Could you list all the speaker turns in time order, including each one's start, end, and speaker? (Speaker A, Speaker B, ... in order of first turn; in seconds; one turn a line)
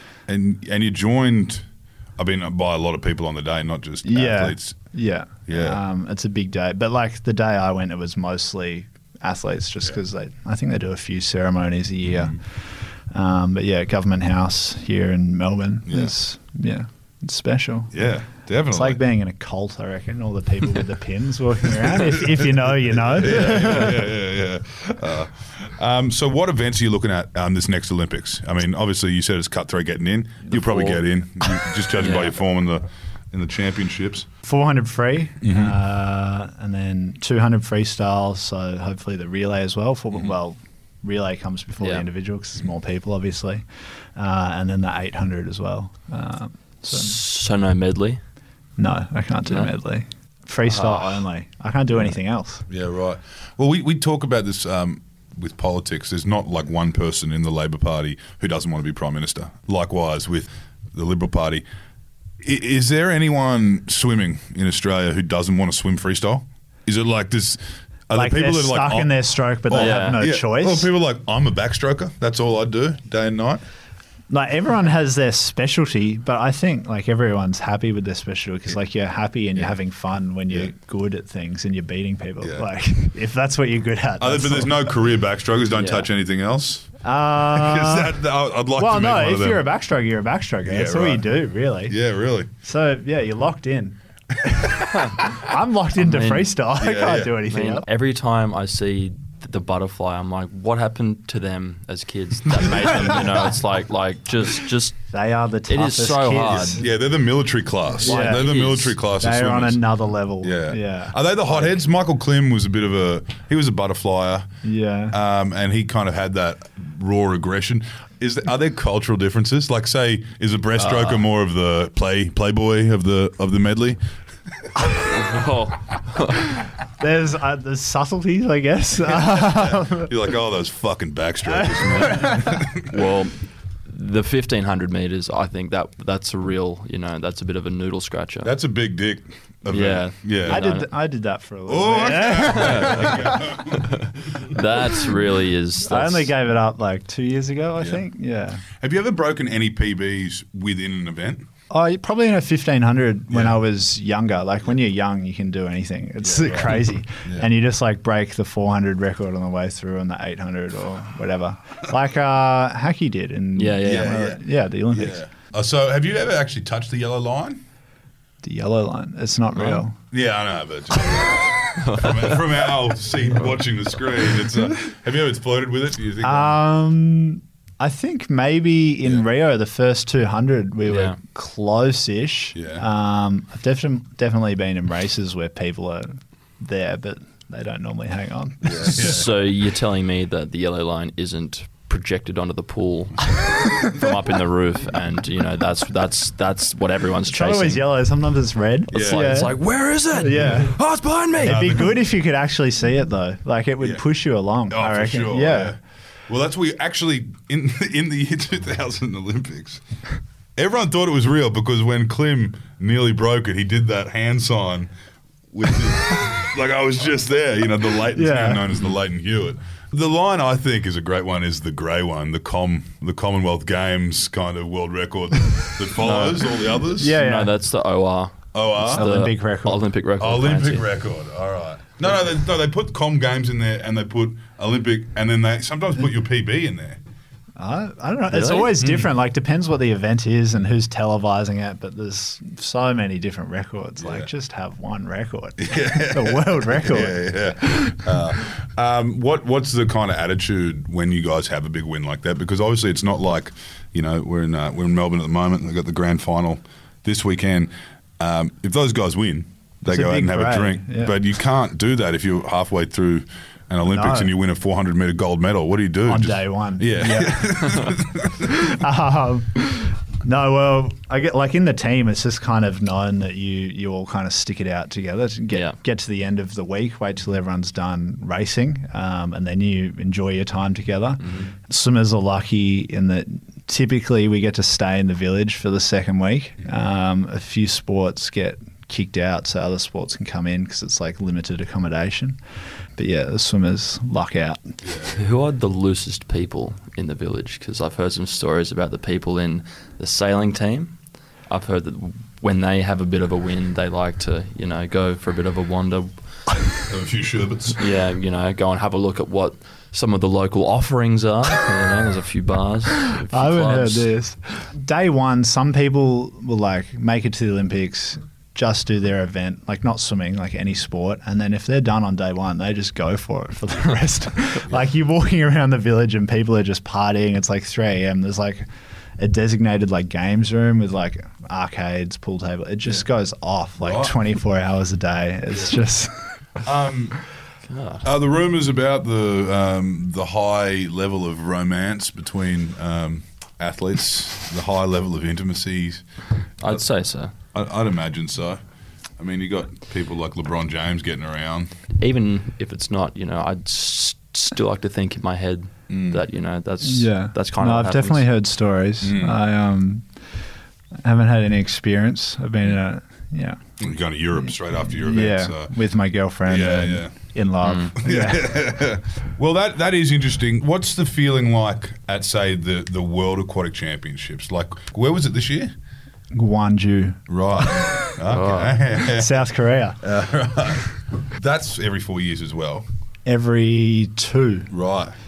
Speaker A: 0.3-5.8
Speaker B: 4.0-18.0
Speaker A: 15.9-16.1
Speaker A: 17.9-19.0
Speaker B: 18.7-24.0
Speaker A: 23.1-34.3
Speaker B: 30.5-31.0
Speaker C: 31.9-32.4
Speaker B: 34.4-47.1
Speaker A: 35.4-35.8
Speaker C: 41.8-42.1
Speaker C: 46.9-48.2
Speaker B: 48.8-52.6
Speaker C: 49.5-49.7
Speaker C: 50.6-51.2
Speaker A: 52.7-61.6
Speaker A: 62.4-73.6
Speaker B: 68.1-70.9
Speaker C: 69.7-70.2
Speaker B: 74.3-85.0
Speaker A: 82.4-82.7
Speaker A: 84.2-89.6
Speaker C: 85.8-86.1
Speaker B: 87.0-88.2
Speaker B: 88.8-92.0
Speaker A: 90.7-91.3
Speaker A: 91.9-92.5
Speaker B: 92.6-97.8
Speaker A: 94.5-94.9
Speaker C: 94.9-95.2
Speaker C: 96.0-96.6
Speaker A: 96.8-97.4
Speaker C: 97.4-105.1
Speaker B: 102.8-103.2
Speaker B: 105.1-107.0
Speaker C: 105.6-106.8
Speaker A: 106.8-109.9
Speaker B: 108.0-111.2
Speaker C: 108.0-109.0
Speaker A: 110.4-124.0
Speaker B: 114.6-115.2
Speaker C: 120.8-121.2
Speaker C: 125.0-126.5
Speaker B: 126.5-130.1
Speaker A: 129.1-132.9
Speaker B: 131.4-132.7
Speaker C: 132.8-138.5
Speaker A: 138.4-140.7
Speaker C: 139.7-140.9
Speaker B: 140.5-143.6
Speaker A: 141.7-144.0
Speaker C: 142.4-146.3
Speaker B: 145.8-148.6
Speaker A: 148.8-151.5
Speaker B: 151.7-165.2
Speaker A: 153.3-153.6
Speaker A: 156.2-157.5
Speaker C: 163.6-164.3
Speaker A: 163.8-167.6
Speaker B: 168.4-170.0
Speaker A: 170.1-176.6
Speaker C: 171.4-172.4
Speaker B: 176.2-189.2
Speaker C: 180.9-181.2
Speaker A: 182.5-182.9
Speaker A: 188.6-189.3
Speaker C: 188.8-197.9
Speaker B: 197.3-199.6
Speaker A: 198.9-199.5
Speaker C: 199.0-201.6
Speaker B: 200.1-200.8
Speaker B: 201.4-205.8
Speaker A: 201.4-201.9
Speaker A: 204.7-209.8
Speaker A: 210.6-214.9
Speaker A: 215.5-227.2
Speaker B: 218.1-218.7
Speaker C: 225.9-230.9
Speaker B: 226.9-227.5
Speaker A: 228.5-229.0
Speaker B: 228.9-229.8
Speaker A: 230.2-237.0
Speaker B: 237.6-248.2
Speaker C: 238.3-238.8
Speaker A: 244.0-244.3
Speaker A: 245.6-268.6
Speaker B: 259.9-261.1
Speaker B: 263.9-264.3
Speaker B: 266.1-292.4
Speaker C: 275.5-275.8
Speaker C: 281.2-281.5
Speaker B: 292.9-294.7
Speaker A: 294.8-295.2
Speaker C: 295.1-306.5
Speaker A: 306.7-307.8
Speaker C: 307.8-314.1
Speaker B: 313.2-328.6
Speaker B: 329.2-336.4
Speaker A: 333.8-334.1
Speaker A: 336.6-337.4
Speaker C: 337.6-338.1
Speaker A: 338.0-348.6
Speaker C: 346.6-347.3
Speaker A: 349.2-351.7
Speaker C: 352.0-358.3
Speaker A: 355.9-356.2
Speaker B: 356.8-360.1
Speaker A: 359.0-359.4
Speaker B: 361.0-363.8
Speaker A: 363.8-365.7
Speaker B: 365.0-368.6
Speaker A: 366.5-367.3
Speaker C: 367.6-367.9
Speaker A: 368.0-375.7
Speaker B: 376.3-378.1
Speaker A: 377.3-379.4
Speaker C: 378.3-378.8
Speaker B: 379.0-380.0
Speaker A: 380.0-382.9
Speaker B: 383.2-384.7
Speaker A: 384.7-385.1